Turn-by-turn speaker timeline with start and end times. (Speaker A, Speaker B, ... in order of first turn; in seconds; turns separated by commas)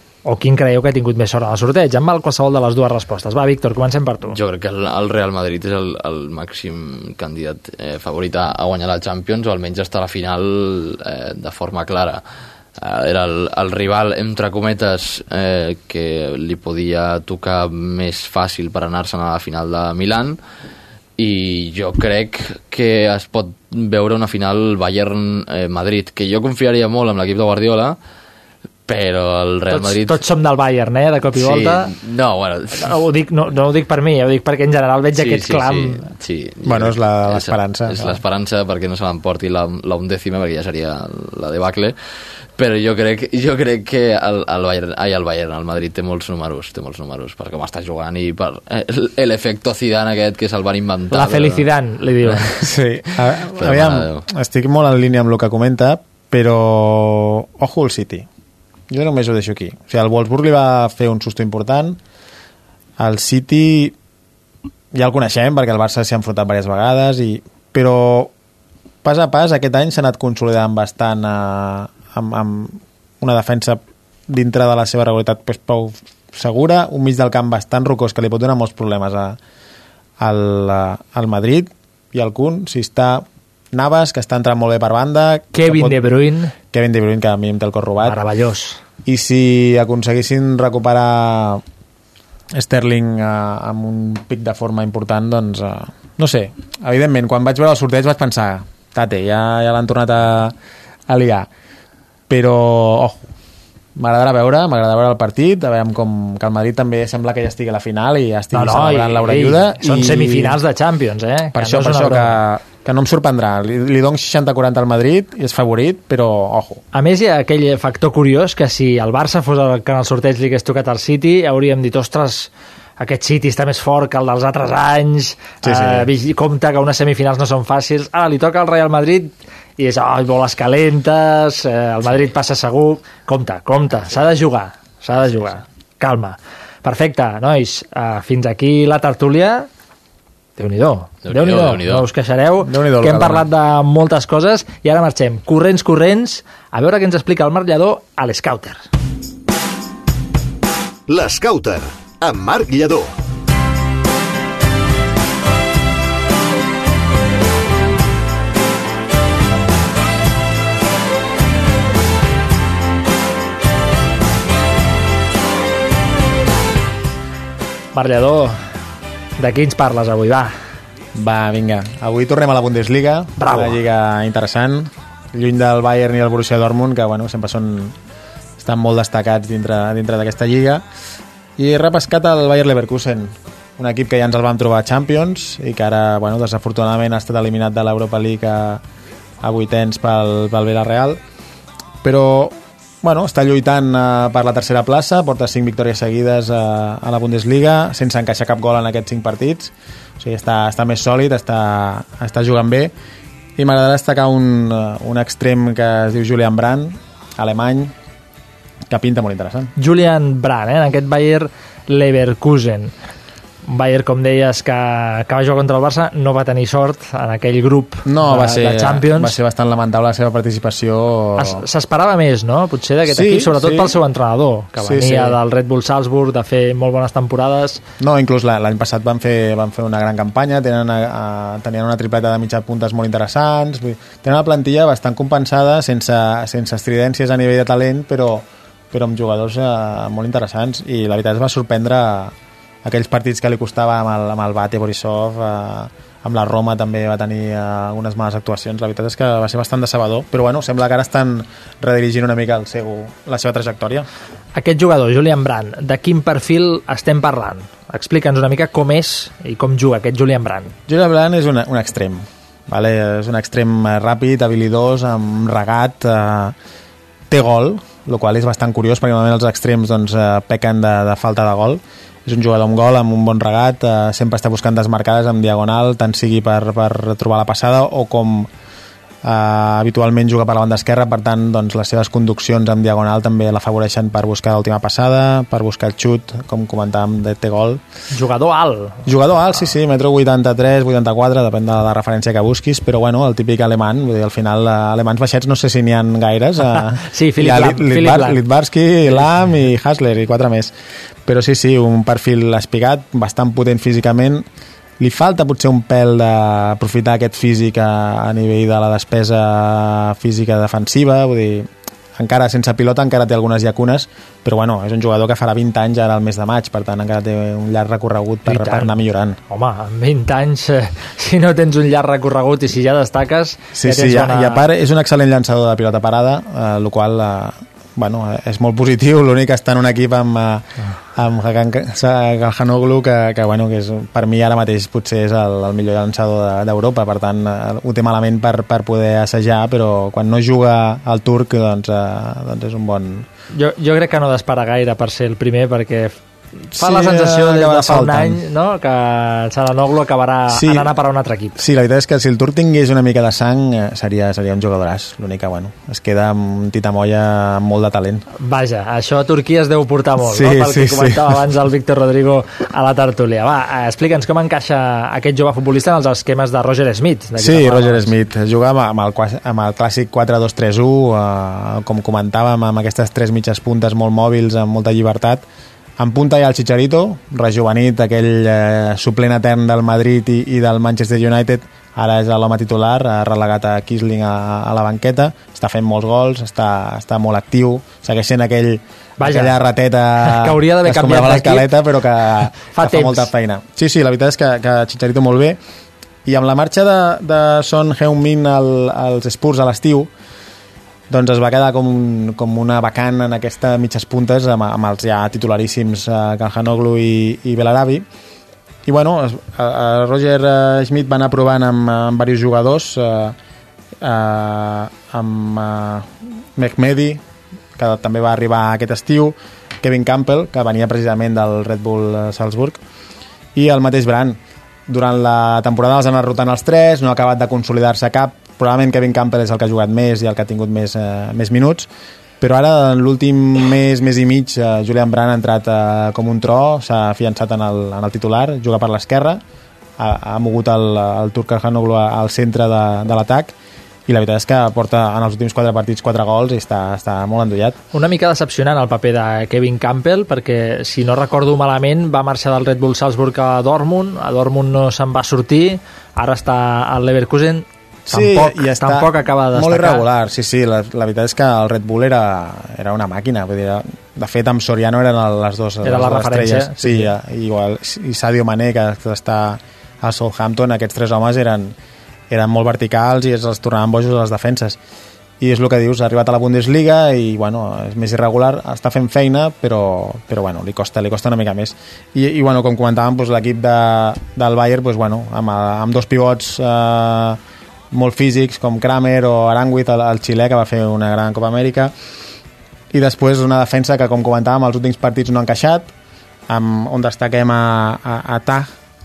Speaker A: 0.3-4.4, Speaker B: 4.3-12.2, Speaker B: 12.8-20.4, Speaker B: 21.2-28.0, Speaker B: 28.9-30.2, Speaker A: 29.7-31.9, Speaker B: 31.3-33.0, Speaker A: 32.8-36.1, Speaker B: 35.2-42.0, Speaker C: 36.6-38.2, Speaker B: 42.6-51.7, Speaker A: 51.1-52.6, Speaker C: 52.6-58.3, Speaker B: 53.6-54.2, Speaker C: 58.9-62.0, Speaker C: 63.0-64.0, Speaker C: 64.9-68.3, Speaker C: 69.0-79.4, Speaker C: 80.2-86.0, Speaker A: 85.5-86.5, Speaker C: 86.7-88.2, Speaker A: 88.0-88.8, Speaker C: 89.0-91.6, Speaker C: 92.5-100.5, Speaker C: 101.1-101.5, Speaker C: 102.3-103.2, Speaker C: 104.0-110.6, Speaker A: 108.5-112.4, Speaker C: 111.5-116.8, Speaker A: 116.9-139.7, Speaker C: 125.6-126.1, Speaker A: 140.6-148.8, Speaker B: 141.3-142.1, Speaker C: 142.6-143.5, Speaker D: 151.1-153.1, Speaker A: 167.9-168.6, Speaker A: 169.4-170.5, Speaker C: 171.2-177.9, Speaker A: 173.4-173.8, Speaker C: 178.6-180.8, Speaker C: 181.6-188.8, Speaker C: 189.4-191.2, Speaker C: 192.0-202.9, Speaker C: 203.6-207.9, Speaker C: 208.9-209.7, Speaker A: 209.8-212.9, Speaker A: 213.7-219.4, Speaker C: 218.1-221.6, Speaker A: 221.4-227.8, Speaker C: 223.1-224.0, Speaker C: 224.8-225.4, Speaker C: 228.0-254.1, Speaker A: 254.6-260.8, Speaker C: 260.9-266.6, Speaker C: 267.3-278.5, Speaker C: 279.2-287.8, Speaker A: 288.1-289.0, Speaker C: 289.1-300.7, Speaker A: 297.0-298.4, Speaker C: 301.3-304.4, Speaker C: 305.0-319.4, Speaker A: 318.5-318.9, Speaker A: 319.5-324.6, Speaker C: 323.8-343.3, Speaker A: 343.5-346.2, Speaker C: 346.7-348.4, Speaker A: 346.8-351.6, Speaker C: 350.5-350.9, Speaker C: 351.6-358.2, Speaker A: 358.4-368.1, Speaker C: 360.2-361.4, Speaker C: 367.4-375.4, Speaker C: 376.0-395.6, Speaker A: 389.2-389.6, Speaker A: 390.2-391.7, Speaker A: 392.6-393.3, Speaker C: 396.2-400.1, Speaker C: 401.1-408.0, Speaker C: 408.9-413.4, Speaker C: 414.0-417.2, Speaker C: 417.8-422.8, Speaker C: 423.6-431.9, Speaker C: 432.4-439.4, Speaker C: 440.0-443.5, Speaker C: 444.1-447.8, Speaker A: 447.9-460.1, Speaker C: 458.1-471.8, Speaker A: 465.8-467.1, Speaker C: 472.3-474.8, Speaker C: 475.4-487.4, Speaker C: 487.9-491.9, Speaker C: 492.9-495.9, Speaker C: 496.5-498.7